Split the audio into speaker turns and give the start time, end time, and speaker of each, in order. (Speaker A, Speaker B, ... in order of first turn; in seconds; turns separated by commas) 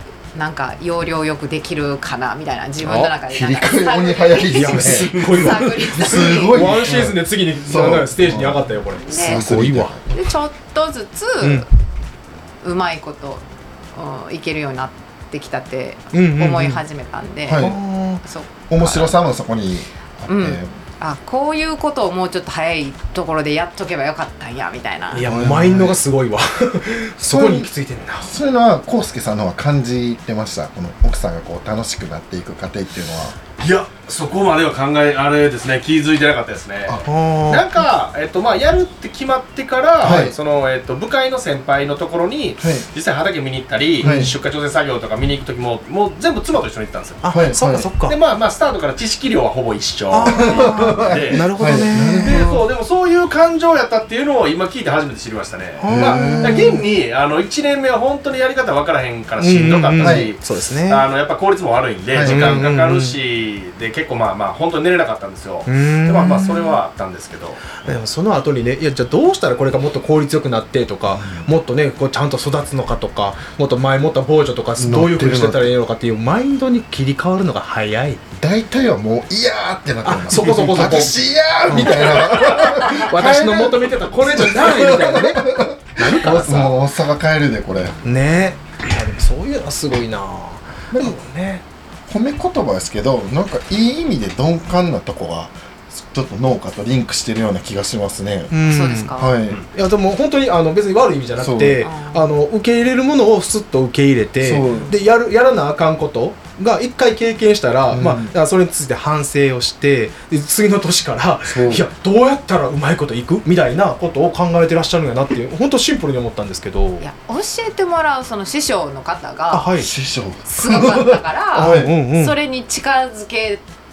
Speaker A: 0.3-6.8, Speaker B: 2.8-3.1, Speaker C: 3.2-10.1, Speaker B: 4.5-9.9, Speaker A: 9.1-9.4, Speaker A: 10.1-11.7, Speaker B: 11.4-11.7, Speaker A: 12.6-17.7, Speaker B: 16.1-16.8, Speaker C: 17.5-17.8, Speaker B: 17.6-18.2, Speaker A: 18.2-19.2, Speaker C: 18.7-20.7, Speaker A: 20.3-25.3, Speaker B: 25.1-28.3, Speaker C: 25.3-26.0, Speaker C: 27.2-33.4, Speaker D: 33.6-47.2, Speaker B: 37.1-37.9, Speaker C: 40.0-40.4, Speaker C: 42.6-42.9, Speaker B: 44.0-44.3, Speaker C: 44.0-44.4, Speaker B: 47.2-48.2, Speaker C: 47.3-47.9, Speaker D: 48.0-67.8, Speaker B: 50.1-52.6, Speaker C: 50.3-52.6, Speaker B: 55.8-56.9, Speaker C: 55.9-56.8, Speaker B: 59.4-61.1, Speaker C: 60.0-60.3, Speaker C: 62.1-62.7, Speaker B: 62.2-63.2, Speaker B: 65.7-66.8, Speaker B: 67.8-78.2, Speaker C: 71.1-71.5, Speaker C: 74.8-75.7, Speaker C: 78.4-88.0, Speaker B: 80.0-81.2, Speaker B: 81.7-86.8, Speaker B: 88.0-91.6, Speaker C: 90.9-91.2, Speaker C: 92.1-98.5, Speaker B: 98.5-117.0, Speaker A: 98.7-99.3, Speaker C: 99.1-99.6, Speaker C: 101.4-101.8, Speaker A: 101.8-102.3, Speaker C: 104.4-104.9, Speaker C: 107.9-108.3, Speaker C: 111.5-111.9, Speaker A: 117.0-119.8, Speaker B: 119.5-119.9, Speaker C: 119.8-121.9, Speaker A: 120.5-123.6, Speaker B: 121.6-122.4